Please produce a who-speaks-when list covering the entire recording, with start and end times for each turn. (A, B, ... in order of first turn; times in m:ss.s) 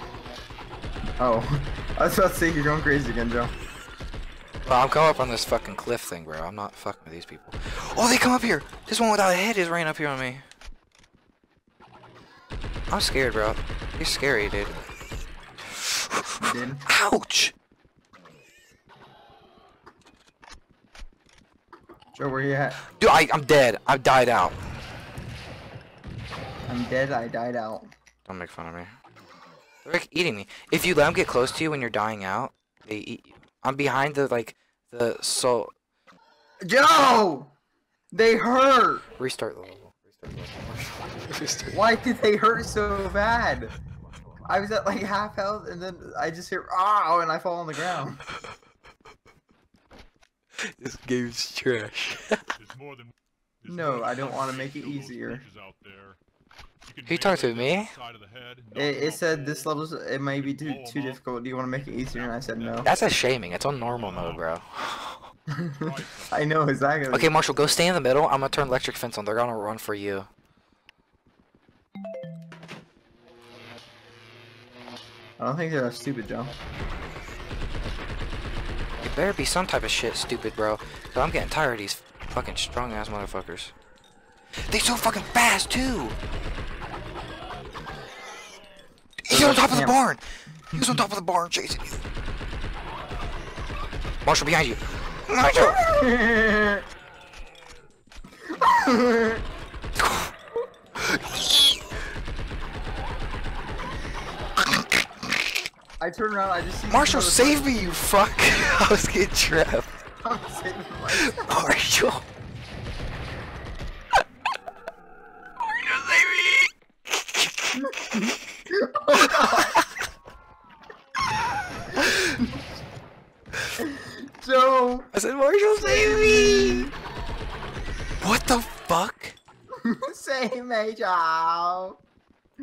0:01.2-0:03.5 A
0:04.6-0:10.4 B
0:12.9-0:14.8 B
0:15.8-0:17.5 B
0:16.4-0:16.9 A
0:22.2-0:22.8 A
0:22.9-0:24.6 B
0:26.7-0:27.9 A
0:28.3-0:28.9 B
0:29.8-0:35.7 B
0:36.6-0:37.5 A
0:38.1-0:39.0 A
0:39.2-0:41.8 B
0:41.7-0:43.8 A
0:44.4-0:48.2 A
0:50.6-0:52.5 B
0:52.6-0:56.2 C
0:53.7-0:55.4 A
0:56.8-1:04.5 C
0:57.0-0:57.9 B
0:58.7-1:02.9 A
1:02.8-1:05.3 B
1:05.6-1:07.4 A
1:05.8-1:06.5 C
1:07.1-1:10.3 B
1:15.4-1:16.5 A
1:19.0-1:23.7 B
1:24.7-1:26.2 B
1:29.2-1:32.0 B
1:29.3-1:30.0 A
1:30.7-1:31.0 A
1:34.2-1:35.8 B
1:35.5-1:36.8 A
1:38.6-1:39.4 A
1:40.0-1:40.3 B
1:41.0-1:41.8 B
1:46.0-1:48.0 A
1:46.9-1:49.9 B
1:50.2-1:51.7 A
1:51.2-1:52.2 B
1:55.7-1:58.4 B
1:57.8-1:59.8 A
1:59.1-1:59.8 B
2:03.8-2:05.1 A
2:05.1-2:06.9 B
2:05.8-2:06.9 A
2:08.2-2:09.4 B
2:09.8-2:12.0 A